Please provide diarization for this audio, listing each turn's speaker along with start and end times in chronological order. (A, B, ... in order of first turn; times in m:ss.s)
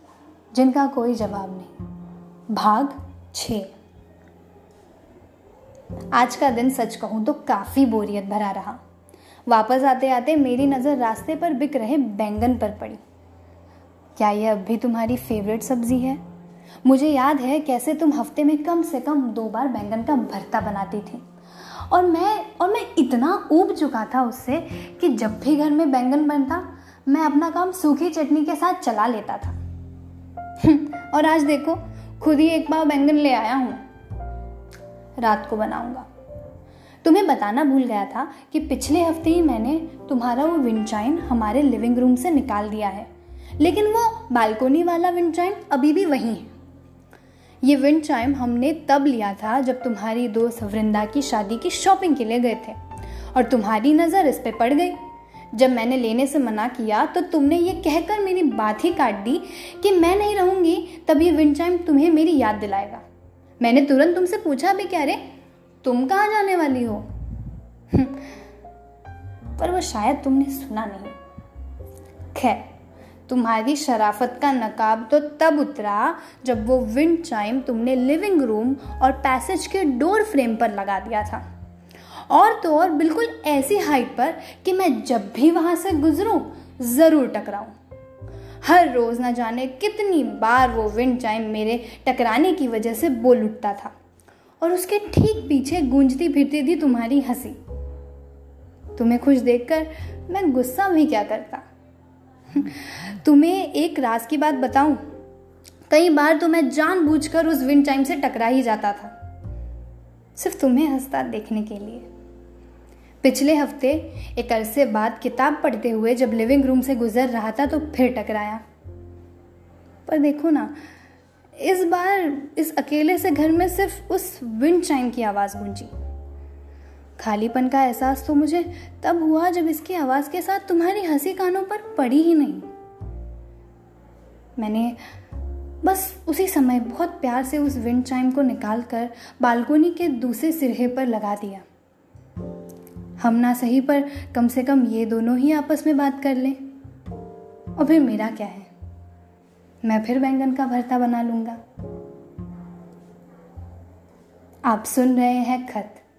0:00.5-0:01.7 A
0:02.5-0:03.7 A
0:06.1-0:08.8 A
0:09.5-0:13.0 A
0:14.2-0:16.2 A
0:16.8-0:29.6 A
0:30.6-0:33.8 A
0:35.2-0:36.0 A
0:37.0-0:46.5 A
0:47.6-0:52.8 A
0:53.3-0:55.0 A
0:55.5-1:03.0 A
1:03.6-1:05.2 A
1:05.8-1:07.1 A
1:07.9-1:08.3 A
1:09.6-1:11.2 A
1:12.3-1:12.7 A
1:13.3-1:21.4 A
1:22.3-1:27.7 A
1:28.6-1:33.9 A
1:34.6-1:37.6 A
1:38.9-1:41.6 A
1:42.5-1:45.1 A
1:45.9-1:49.2 A
1:50.3-1:52.1 A
1:53.2-1:58.6 A
2:00.1-2:00.7 A
2:01.6-2:05.9 A
2:07.2-2:12.7 A
2:14.6-2:15.0 A
2:15.8-2:21.6 A
2:23.2-2:26.6 A
2:27.8-2:28.7 A
2:29.8-2:31.6 A
2:34.6-2:36.0 A